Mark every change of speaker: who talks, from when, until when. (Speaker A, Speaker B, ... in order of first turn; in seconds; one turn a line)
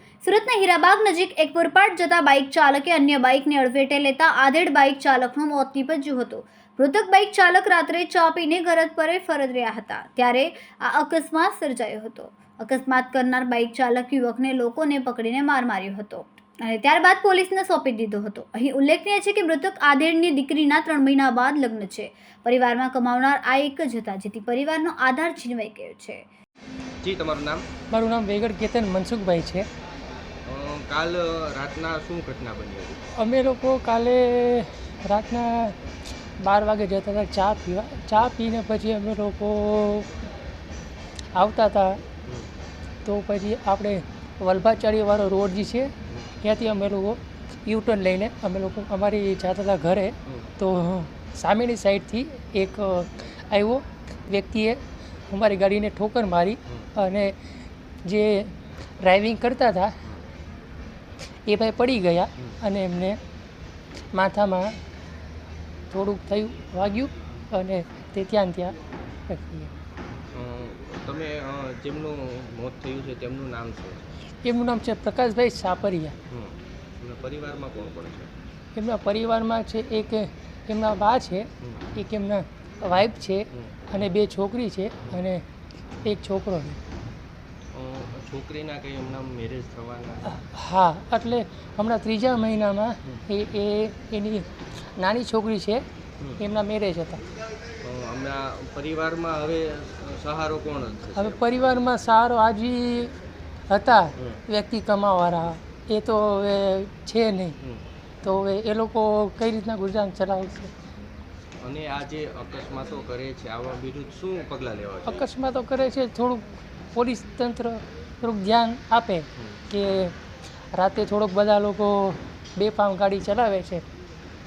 Speaker A: 0.2-26.2
Speaker B: 27.0-27.6
Speaker C: 27.9-29.6
Speaker B: 30.4-33.0
Speaker C: 33.1-35.8
Speaker C: 36.4-40.1
Speaker C: 41.3-42.0
Speaker C: 43.0-57.4
Speaker C: 58.0-60.0
Speaker C: 61.4-63.2
Speaker C: 64.1-64.8
Speaker C: 65.9-68.8
Speaker C: 69.3-69.7
Speaker B: 70.3-74.0
Speaker C: 74.4-76.1
Speaker B: 76.3-78.3
Speaker C: 78.7-85.4
Speaker C: 86.0-86.8
Speaker B: 87.7-90.4
Speaker C: 90.4-95.8
Speaker C: 96.4-97.2
Speaker B: 97.8-101.5
Speaker C: 101.2-103.1
Speaker C: 103.7-107.5
Speaker C: 108.2-110.7
Speaker B: 111.6-115.2
Speaker C: 115.0-120.1
Speaker C: 120.7-123.8